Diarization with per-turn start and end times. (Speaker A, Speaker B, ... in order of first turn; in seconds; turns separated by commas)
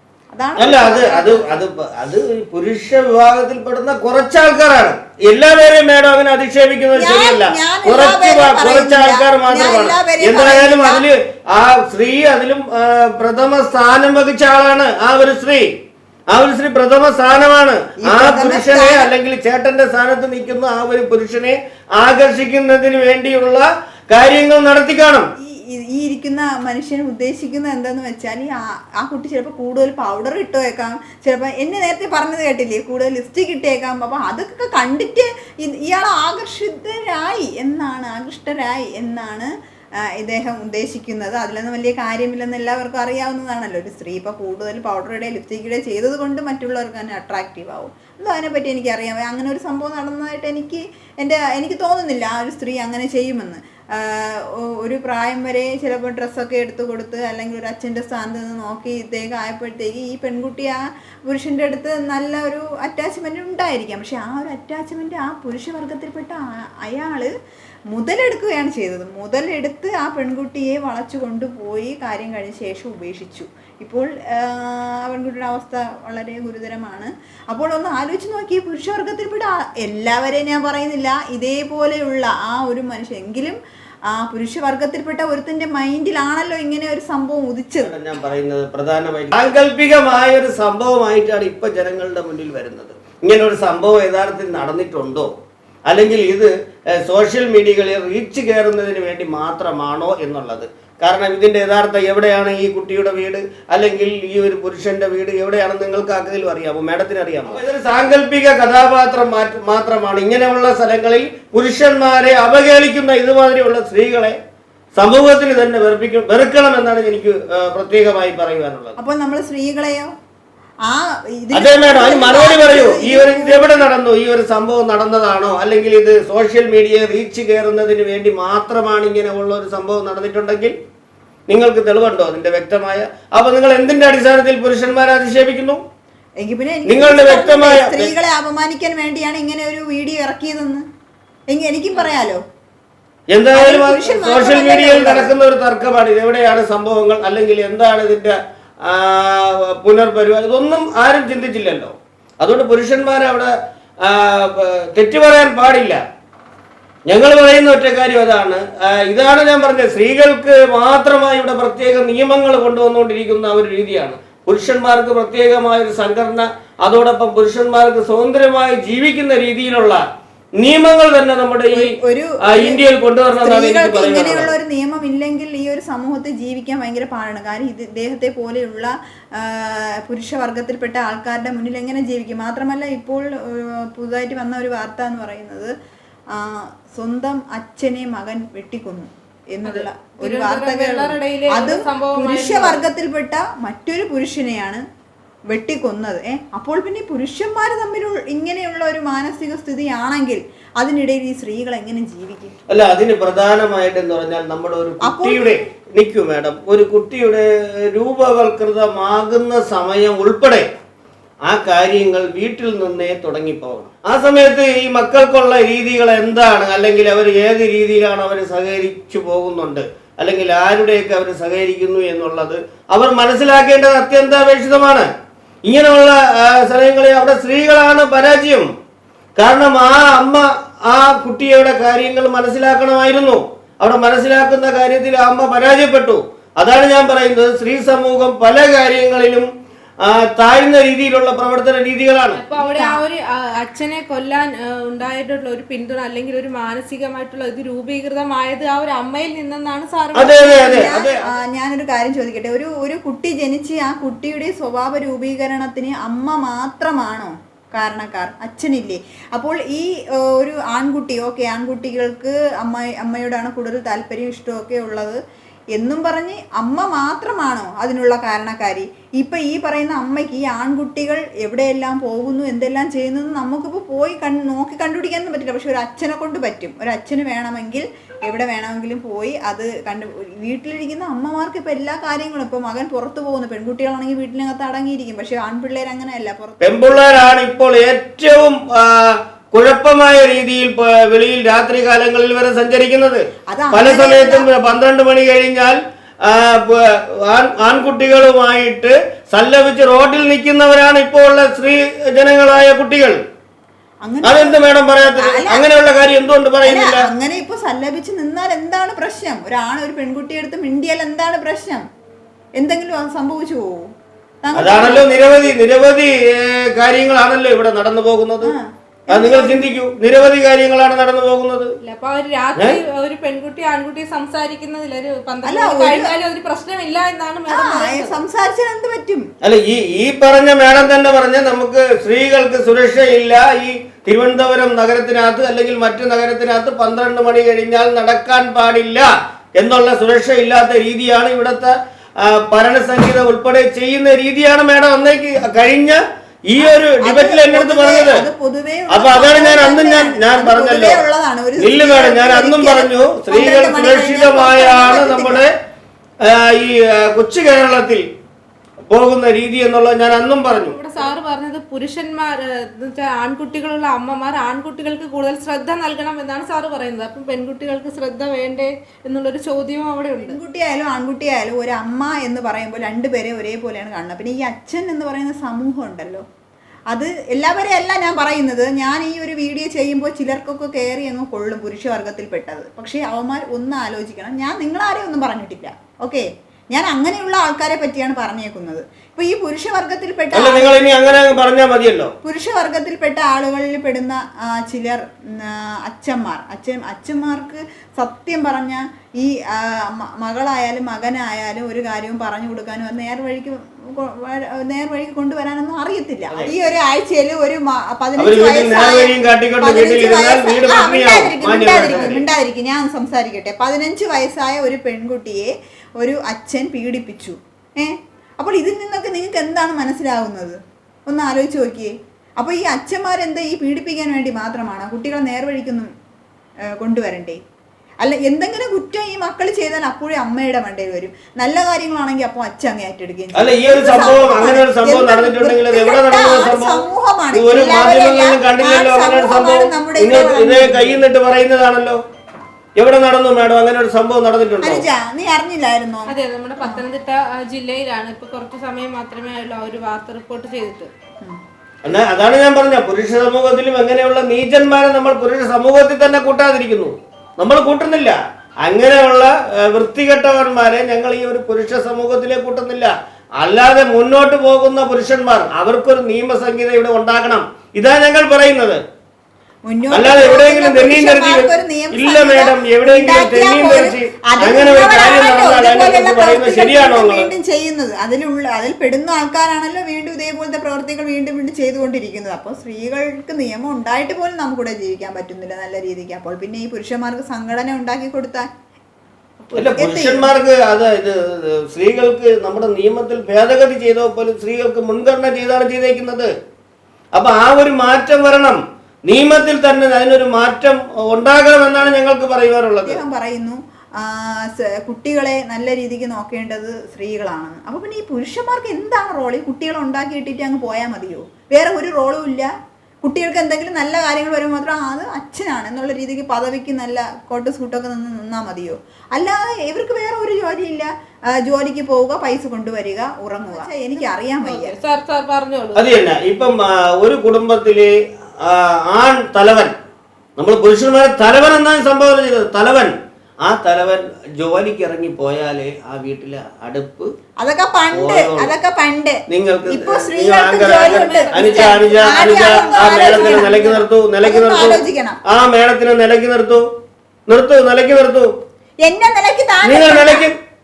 Speaker A: 0.3-1.6, Speaker B: 0.6-15.7, Speaker A: 7.0-11.1, Speaker B: 16.3-25.3, Speaker A: 18.0-19.1, Speaker A: 25.4-39.5, Speaker A: 40.1-60.8, Speaker A: 61.3-67.3, Speaker A: 67.9-83.6, Speaker A: 84.1-87.9, Speaker B: 87.8-95.3, Speaker B: 95.9-114.4, Speaker B: 115.0-119.0, Speaker A: 119.0-120.1, Speaker A: 120.9-123.9, Speaker B: 121.5-130.8, Speaker B: 131.5-135.8, Speaker A: 136.4-140.8, Speaker B: 136.9-138.1, Speaker A: 141.5-142.4, Speaker B: 143.3-156.0, Speaker A: 143.5-145.4, Speaker B: 157.1-170.0, Speaker B: 170.6-174.5, Speaker A: 171.7-185.7, Speaker A: 186.3-194.8, Speaker C: 189.7-192.9, Speaker A: 195.5-202.6, Speaker B: 202.7-210.7, Speaker A: 205.0-205.7, Speaker B: 211.5-225.1, Speaker B: 225.7-228.7, Speaker B: 229.4-239.5, Speaker B: 240.0-242.4, Speaker C: 242.3-250.9, Speaker A: 242.6-243.0, Speaker B: 250.1-251.2, Speaker A: 250.4-265.2, Speaker A: 265.8-287.3, Speaker B: 286.6-303.2, Speaker A: 293.5-294.5, Speaker A: 304.0-304.6, Speaker B: 304.2-307.1, Speaker A: 305.2-305.6, Speaker A: 306.6-311.8, Speaker A: 312.6-313.9, Speaker A: 314.4-315.1, Speaker B: 314.5-318.5, Speaker A: 318.4-319.8, Speaker B: 319.1-321.7, Speaker C: 321.8-328.1, Speaker A: 325.4-326.1, Speaker A: 327.5-329.2, Speaker B: 329.4-348.2, Speaker A: 346.6-355.5, Speaker B: 348.9-351.0, Speaker B: 351.6-355.5, Speaker B: 356.2-358.1, Speaker B: 358.9-360.8, Speaker C: 360.6-370.4, Speaker A: 370.2-376.2, Speaker A: 376.9-390.9, Speaker B: 390.3-392.1, Speaker A: 392.2-425.9, Speaker B: 406.3-406.7, Speaker B: 408.2-412.2, Speaker A: 426.8-427.4, Speaker A: 428.0-441.0, Speaker B: 433.4-436.8, Speaker B: 437.3-442.0, Speaker B: 442.8-444.9, Speaker A: 444.6-446.8, Speaker C: 446.1-450.9, Speaker B: 451.9-468.8, Speaker A: 469.7-488.5, Speaker B: 469.9-477.3, Speaker A: 489.5-490.3, Speaker B: 489.5-496.3, Speaker B: 497.1-503.0, Speaker A: 502.9-512.5, Speaker A: 513.0-524.8, Speaker C: 523.5-525.8, Speaker B: 525.8-529.7, Speaker B: 530.4-537.1, Speaker A: 537.4-545.2, Speaker B: 537.9-538.5, Speaker B: 539.3-546.7, Speaker C: 540.7-543.7, Speaker B: 547.3-548.3, Speaker A: 548.8-550.3, Speaker B: 549.6-550.4